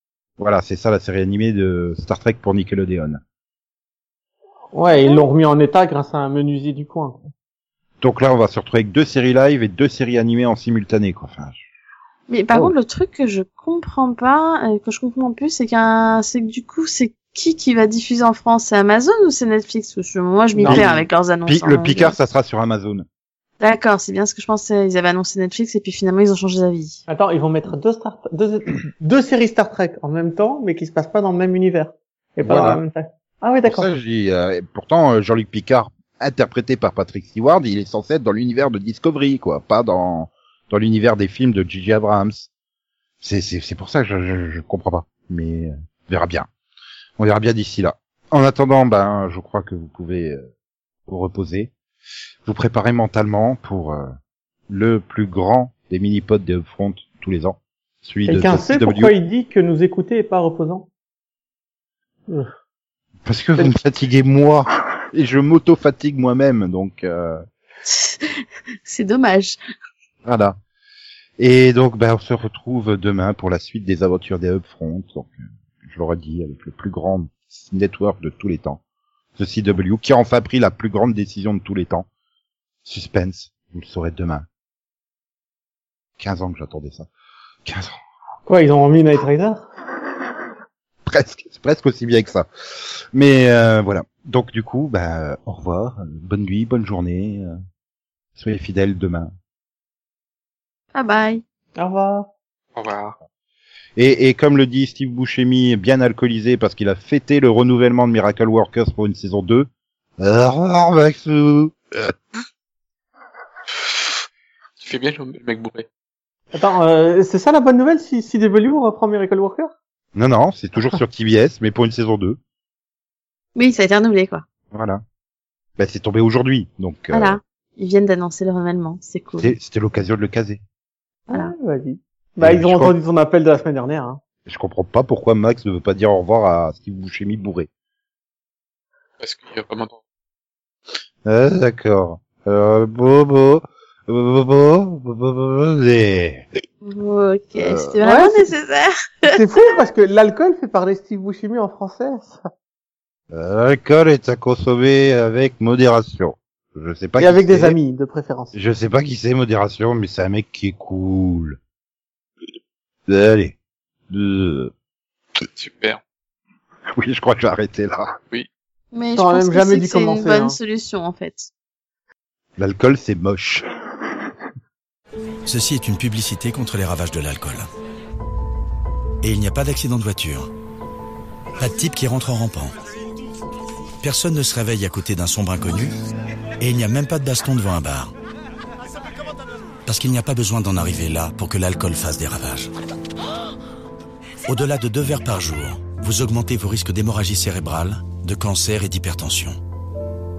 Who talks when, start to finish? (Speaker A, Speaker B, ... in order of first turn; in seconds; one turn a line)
Speaker A: 0.4-3.2
Speaker B: 4.7-7.2
Speaker C: 4.9-5.2
Speaker A: 8.0-11.6
Speaker C: 12.3-22.1
Speaker B: 20.6-20.9
Speaker A: 20.6-23.0
Speaker C: 23.6-27.0
Speaker B: 27.1-33.9
Speaker A: 32.4-32.8
Speaker A: 33.6-42.5
Speaker A: 43.2-46.5
Speaker A: 47.2-50.5
Speaker A: 51.1-51.7
Speaker A: 52.4-54.1
Speaker A: 54.7-59.1
Speaker B: 58.3-60.9
Speaker A: 63.2-67.4
Speaker C: 67.8-69.6
Speaker A: 70.2-70.5
Speaker A: 71.4-78.8
Speaker A: 79.4-82.1
Speaker A: 82.8-84.4
Speaker A: 86.2-87.1
Speaker A: 87.6-88.0
Speaker B: 88.5-89.6
Speaker A: 91.0-97.5
Speaker A: 98.4-99.3
Speaker C: 100.9-101.4
Speaker B: 101.8-102.3
Speaker D: 102.7-103.2
Speaker A: 104.0-109.7
Speaker A: 110.2-112.2
Speaker D: 114.8-115.8
Speaker B: 116.5-119.7
Speaker A: 120.1-122.4
Speaker C: 123.5-124.4
Speaker A: 124.7-125.0
Speaker A: 125.8-127.4
Speaker C: 127.1-129.6
Speaker A: 129.4-130.6
Speaker B: 131.3-134.2
Speaker A: 132.4-132.9
Speaker A: 134.4-137.7
Speaker D: 139.2-140.0
Speaker A: 141.2-146.4
Speaker C: 146.8-149.3
Speaker A: 147.6-147.9
Speaker B: 148.0-148.5
Speaker B: 149.2-152.4
Speaker A: 153.3-157.8
Speaker B: 157.2-158.5
Speaker A: 158.5-161.6
Speaker A: 163.1-163.6
Speaker A: 164.1-164.7
Speaker D: 165.6-166.0
Speaker A: 166.9-168.1
Speaker C: 168.9-171.5
Speaker B: 169.2-170.6
Speaker A: 172.6-173.6
Speaker E: 175.4-177.7
Speaker E: 179.2-180.5
Speaker E: 181.6-182.7
Speaker E: 184.0-185.9
Speaker E: 186.6-188.1
Speaker E: 189.8-192.7
Speaker E: 194.5-199.6